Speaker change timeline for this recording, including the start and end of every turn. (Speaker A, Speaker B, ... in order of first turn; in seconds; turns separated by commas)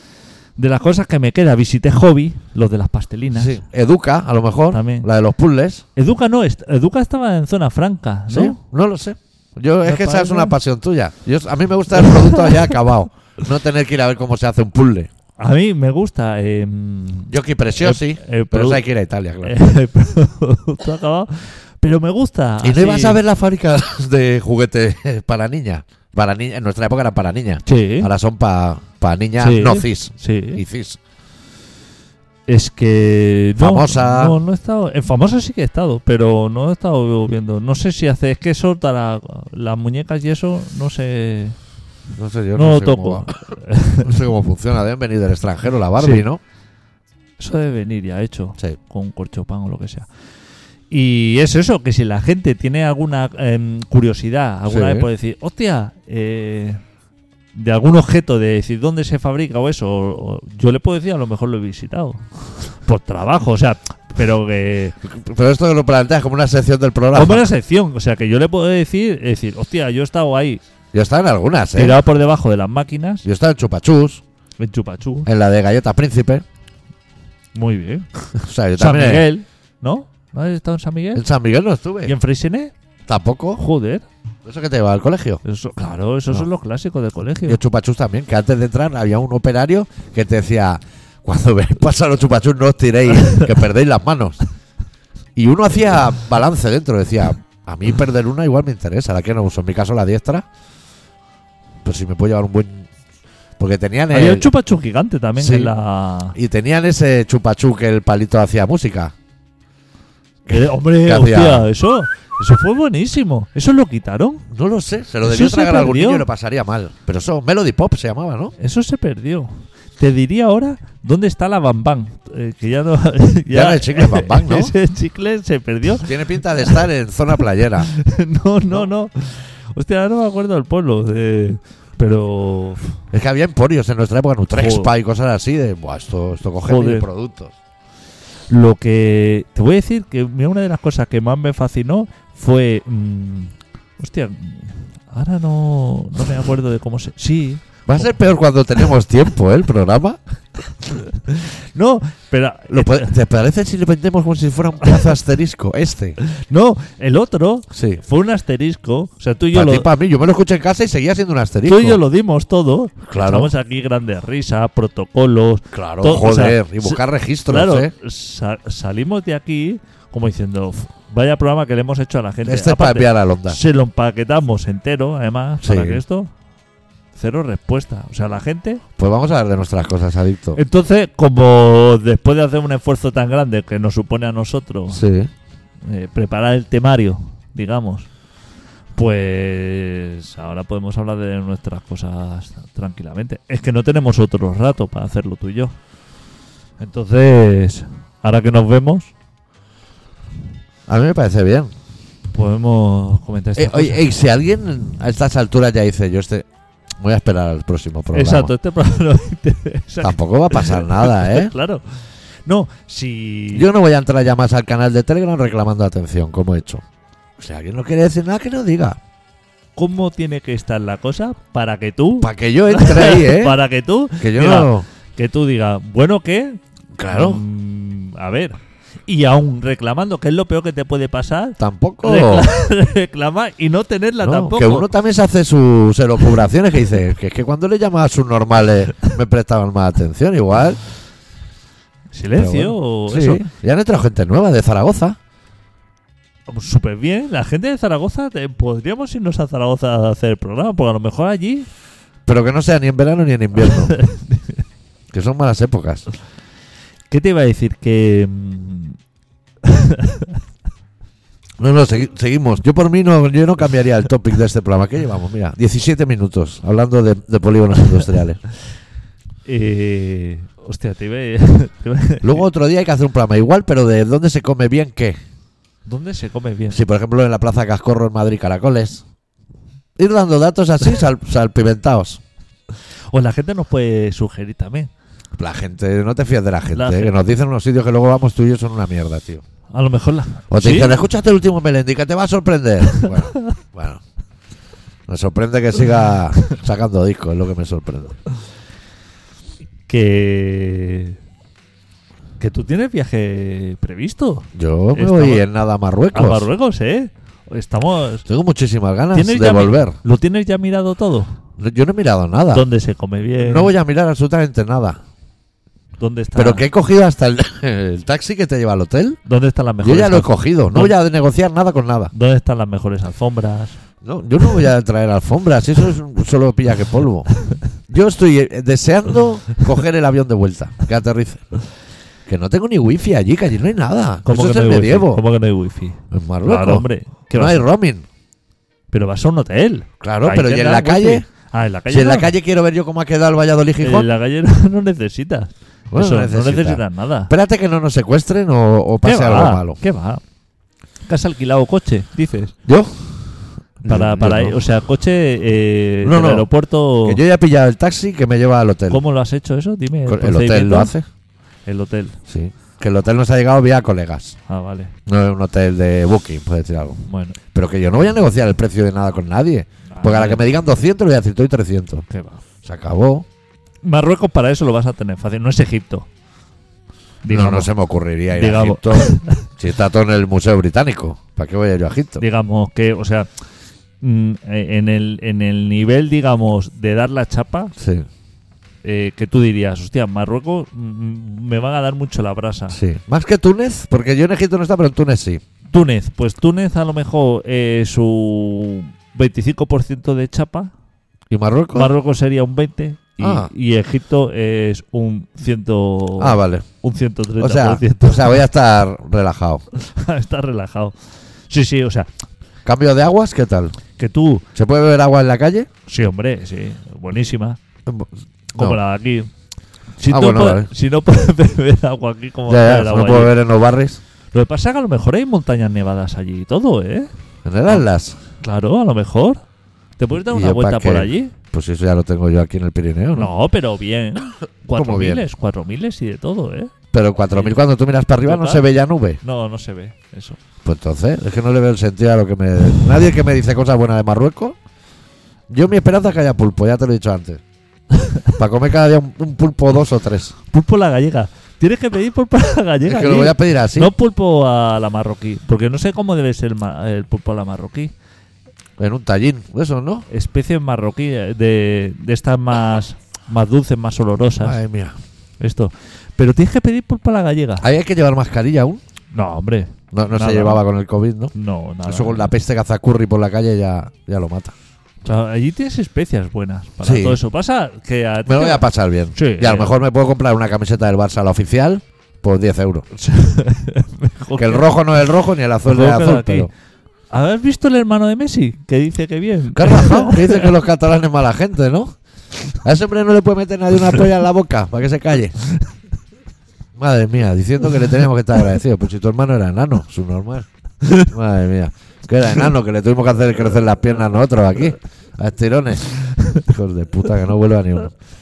Speaker A: 0.6-3.6, Speaker B: 3.3-5.8, Speaker A: 4.7-5.1, Speaker A: 6.0-8.6, Speaker B: 8.3-15.1, Speaker A: 9.8-10.6, Speaker A: 12.0-12.6, Speaker A: 15.4-18.8, Speaker B: 17.3-19.6, Speaker A: 19.4-23.2, Speaker B: 22.6-31.0, Speaker A: 27.6-28.1, Speaker A: 29.4-30.6, Speaker A: 32.5-41.6, Speaker B: 33.6-34.4, Speaker B: 42.2-43.4, Speaker A: 42.6-44.1, Speaker B: 44.0-46.4, Speaker A: 46.0-46.2, Speaker A: 47.4-50.1, Speaker A: 50.9-56.8, Speaker B: 54.7-55.1, Speaker A: 57.5-65.0, Speaker B: 65.0-67.5, Speaker A: 67.1-70.6, Speaker B: 70.9-72.0, Speaker A: 71.8-73.2, Speaker B: 73.2-74.2, Speaker A: 74.6-75.3, Speaker B: 75.3-76.4, Speaker A: 77.5-78.1, Speaker B: 78.4-79.3, Speaker A: 78.8-81.2, Speaker B: 81.2-82.1, Speaker A: 82.0-82.7, Speaker B: 83.1-83.6, Speaker A: 83.6-84.0, Speaker B: 84.5-85.4, Speaker A: 85.5-87.6, Speaker B: 87.5-94.4, Speaker B: 95.4-100.5, Speaker B: 101.8-102.9, Speaker B: 103.6-104.5, Speaker A: 104.1-106.4, Speaker B: 105.4-105.7, Speaker B: 106.3-109.1, Speaker B: 110.5-111.7, Speaker A: 110.5-114.5, Speaker B: 114.5-118.5, Speaker A: 115.2-116.3, Speaker A: 118.6-126.8, Speaker B: 123.5-124.7, Speaker B: 126.0-127.9, Speaker A: 127.9-132.8, Speaker B: 133.1-137.5, Speaker A: 134.6-134.9, Speaker A: 136.6-137.1, Speaker A: 138.5-148.1, Speaker B: 147.9-150.2, Speaker A: 151.1-153.1, Speaker B: 152.7-156.2, Speaker A: 156.2-159.9, Speaker B: 157.7-158.0, Speaker B: 159.5-162.0, Speaker A: 161.7-176.3, Speaker B: 163.0-163.5, Speaker B: 165.7-167.9, Speaker B: 172.4-173.6, Speaker B: 175.6-176.0, Speaker A: 177.2-178.8, Speaker B: 179.0-180.6, Speaker A: 180.6-185.0, Speaker B: 184.9-185.3, Speaker A: 185.8-188.1, Speaker A: 188.9-195.8, Speaker A: 196.8-199.1, Speaker B: 200.9-201.7, Speaker A: 202.3-204.0, Speaker B: 203.6-206.5, Speaker B: 207.0-208.5, Speaker A: 208.1-211.8, Speaker B: 210.0-211.5, Speaker A: 212.5-213.7, Speaker B: 213.5-216.8, Speaker B: 217.4-219.0, Speaker A: 219.8-226.6, Speaker B: 222.2-223.6, Speaker B: 224.2-224.9, Speaker B: 227.0-227.4, Speaker A: 227.1-234.9, Speaker B: 231.6-232.5, Speaker B: 234.2-240.8, Speaker A: 242.1-243.4, Speaker B: 242.4-245.2, Speaker A: 246.5-251.7, Speaker B: 252.3-253.9, Speaker A: 253.7-254.6, Speaker B: 255.1-256.1, Speaker A: 257.1-259.0, Speaker A: 259.6-260.4, Speaker B: 261.6-268.4, Speaker A: 269.5-272.4, Speaker B: 272.2-275.2, Speaker A: 275.9-276.8, Speaker B: 276.7-279.0, Speaker B: 280.0-282.2, Speaker A: 283.1-284.9, Speaker B: 285.4-289.4, Speaker A: 286.7-287.1, Speaker A: 289.7-291.0, Speaker B: 290.5-294.0, Speaker A: 292.9-293.6, Speaker B: 295.1-298.2, Speaker A: 299.9-301.2, Speaker A: 302.4-305.4, Speaker B: 304.6-306.5, Speaker A: 306.1-308.2, Speaker B: 308.3-310.0, Speaker A: 309.1-311.3, Speaker B: 311.6-312.6, Speaker A: 312.5-313.7, Speaker B: 313.4-315.0, Speaker A: 316.0-316.7, Speaker B: 316.4-319.2, Speaker A: 319.3-321.0, Speaker B: 319.8-322.1, Speaker A: 322.1-323.8, Speaker B: 324.0-327.3, Speaker B: 327.9-331.5, Speaker B: 332.3-335.2, Speaker A: 334.2-337.7, Speaker B: 336.1-338.1, Speaker A: 338.9-342.3, Speaker B: 340.0-341.3, Speaker B: 341.9-344.1, Speaker A: 343.8-347.3, Speaker B: 345.9-349.8, Speaker A: 349.0-350.2, Speaker A: 351.1-352.5, Speaker B: 352.7-354.6, Speaker A: 353.9-357.2, Speaker B: 356.0-356.5, Speaker B: 357.0-359.0, Speaker A: 358.9-360.9, Speaker B: 360.1-361.1, Speaker A: 361.7-362.2, Speaker B: 362.3-364.4, Speaker A: 364.5-364.9, Speaker B: 365.1-367.0, Speaker A: 367.1-367.4, Speaker B: 367.5-372.1, Speaker A: 369.9-370.4, Speaker A: 372.1-372.4, Speaker B: 372.6-373.3, Speaker A: 373.8-376.1, Speaker A: 377.2-377.7, Speaker B: 377.3-382.2, Speaker A: 378.3-379.5, Speaker A: 382.2-383.3, Speaker A: 384.0-387.7, Speaker B: 387.8-388.1, Speaker A: 388.8-392.8, Speaker B: 392.7-395.4, Speaker A: 395.7-400.7, Speaker B: 401.3-401.9, Speaker A: 401.7-408.4, Speaker B: 403.2-403.5, Speaker B: 406.2-406.7, Speaker B: 407.4-409.6, Speaker A: 409.8-410.9, Speaker A: 411.5-412.1, Speaker B: 412.6-413.8, Speaker A: 414.0-414.4, Speaker B: 414.6-415.7, Speaker A: 415.9-417.6, Speaker B: 417.9-418.8, Speaker A: 418.5-419.3, Speaker A: 420.0-423.4, Speaker B: 420.1-420.7, Speaker B: 422.5-424.0, Speaker A: 424.3-427.1, Speaker B: 427.4-428.2, Speaker A: 428.4-429.4, Speaker A: 430.0-431.3, Speaker B: 430.2-433.3, Speaker A: 433.1-436.7, Speaker B: 434.7-435.2, Speaker B: 436.9-439.2, Speaker A: 437.3-437.6, Speaker A: 438.2-438.6, Speaker A: 439.2-440.4, Speaker B: 440.6-444.6, Speaker B: 445.5-447.4, Speaker B: 448.4-450.4, Speaker A: 450.5-457.9, Speaker B: 452.9-453.9, Speaker B: 458.8-460.1, Speaker A: 460.1-464.6, Speaker B: 464.4-465.0, Speaker A: 465.4-467.6, Speaker B: 467.6-468.8, Speaker A: 469.1-470.6, Speaker B: 469.9-471.3, Speaker A: 471.3-472.3, Speaker B: 471.9-474.6, Speaker A: 475.1-479.8, Speaker B: 476.8-477.2, Speaker B: 478.3-482.9, Speaker A: 482.9-484.7, Speaker B: 484.4-486.5, Speaker A: 485.6-486.5, Speaker A: 487.1-490.5, Speaker B: 489.6-492.0, Speaker B: 492.6-495.4, Speaker B: 496.8-500.5, Speaker B: 501.0-507.9